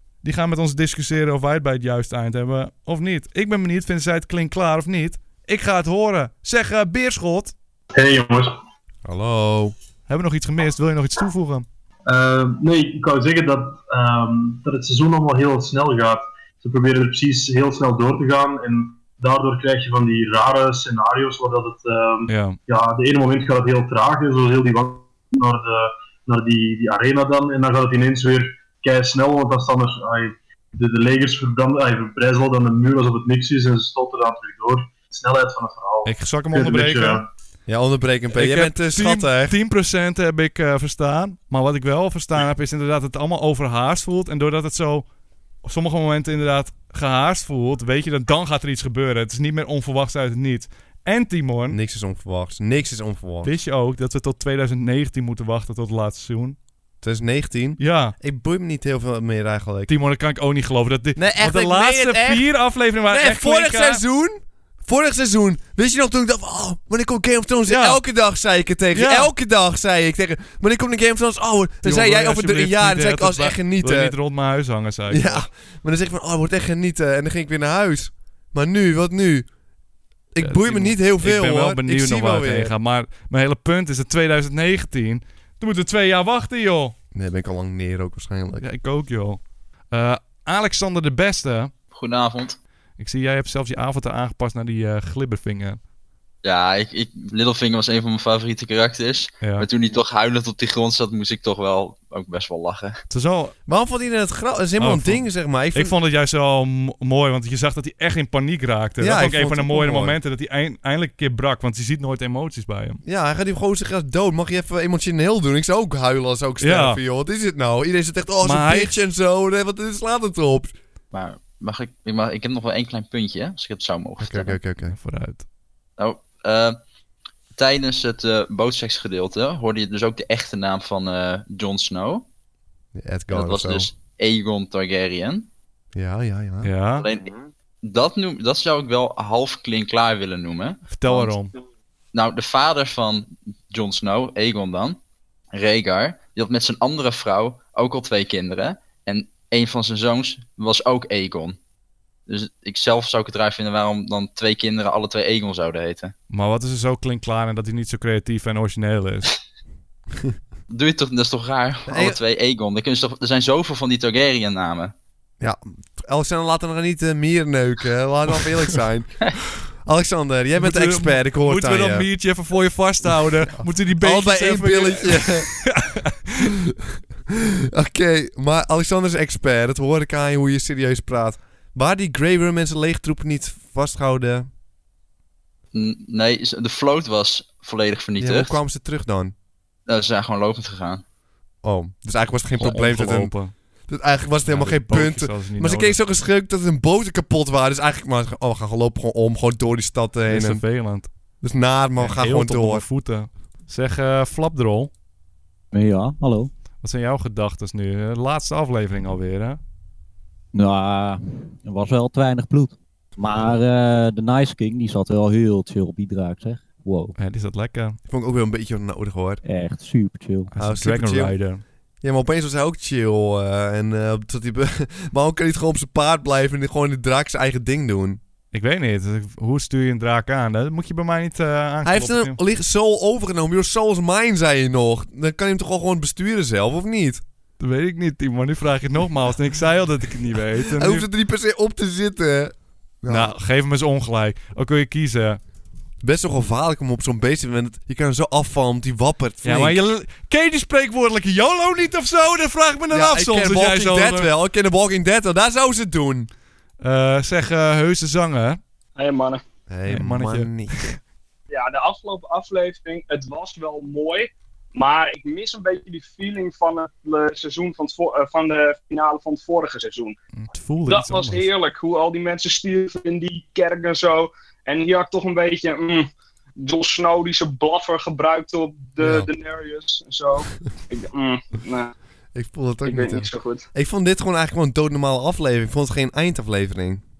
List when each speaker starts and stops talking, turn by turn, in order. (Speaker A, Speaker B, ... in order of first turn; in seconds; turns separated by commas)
Speaker A: 0.2-7.5, Speaker B: 7.9-8.6, Speaker C: 9.1-9.7, Speaker A: 10.1-11.7, Speaker B: 12.1-37.3, Speaker A: 22.3-22.6, Speaker A: 36.0-37.2, Speaker C: 37.7-39.5, Speaker A: 38.3-45.1, Speaker A: 45.6-51.8, Speaker C: 51.7-53.5, Speaker A: 53.4-56.6, Speaker C: 57.0-59.9, Speaker A: 57.8-58.2, Speaker A: 59.9-64.0, Speaker C: 61.2-62.5, Speaker C: 63.1-74.2, Speaker A: 67.7-68.0, Speaker A: 68.9-69.3, Speaker A: 71.8-75.5, Speaker C: 75.1-79.5, Speaker C: 80.3-82.7, Speaker A: 80.4-87.0, Speaker C: 87.1-88.7, Speaker A: 88.6-89.4, Speaker A: 89.9-91.7, Speaker D: 91.9-92.6, Speaker A: 93.0-95.8, Speaker D: 96.4-103.0, Speaker A: 99.4-99.7, Speaker A: 103.1-103.5, Speaker C: 103.7-106.0, Speaker A: 104.8-113.0, Speaker C: 109.0-110.2, Speaker C: 113.0-120.7, Speaker A: 116.6-117.0, Speaker A: 118.4-119.0, Speaker D: 121.1-124.6, Speaker C: 124.2-125.0, Speaker A: 124.8-125.5, Speaker D: 126.0-126.8, Speaker D: 127.5-132.2, Speaker C: 132.9-133.9, Speaker D: 133.3-135.5, Speaker C: 135.9-136.7, Speaker A: 136.6-137.1, Speaker D: 137.0-137.3, Speaker D: 137.8-141.4, Speaker A: 140.9-141.5, Speaker D: 142.1-145.0, Speaker D: 145.5-151.6, Speaker D: 152.3-156.1, Speaker A: 156.3-159.3, Speaker D: 160.7-164.9, Speaker C: 161.9-162.2, Speaker C: 165.4-169.2, Speaker C: 169.8-172.1, Speaker A: 170.6-176.4, Speaker C: 173.5-175.6, Speaker C: 177.7-184.5, Speaker D: 185.7-188.6, Speaker C: 188.2-189.3, Speaker D: 189.9-191.0, Speaker C: 191.6-193.3, Speaker A: 192.6-193.5, Speaker C: 193.9-200.6, Speaker A: 194.5-196.0, Speaker A: 200.3-201.1, Speaker C: 201.4-202.8, Speaker A: 202.0-204.9, Speaker E: 205.7-206.5, Speaker A: 206.8-209.6, Speaker E: 210.5-217.2, Speaker A: 217.2-218.0, Speaker C: 218.1-219.4, Speaker E: 219.4-220.5, Speaker A: 220.5-221.6, Speaker C: 220.6-221.4, Speaker C: 222.0-228.2, Speaker A: 228.5-232.4, Speaker C: 231.8-237.2, Speaker A: 237.6-241.1, Speaker C: 240.7-243.3, Speaker A: 243.1-245.4, Speaker C: 246.0-249.8, Speaker A: 249.4-254.3, Speaker C: 252.9-256.3, Speaker A: 256.8-258.6, Speaker F: 259.0-259.4, Speaker C: 259.7-261.0, Speaker A: 259.9-260.9, Speaker F: 261.5-270.1, Speaker A: 270.4-271.5, Speaker F: 270.9-276.1, Speaker F: 276.6-281.9, Speaker C: 282.4-287.0, Speaker F: 282.9-283.7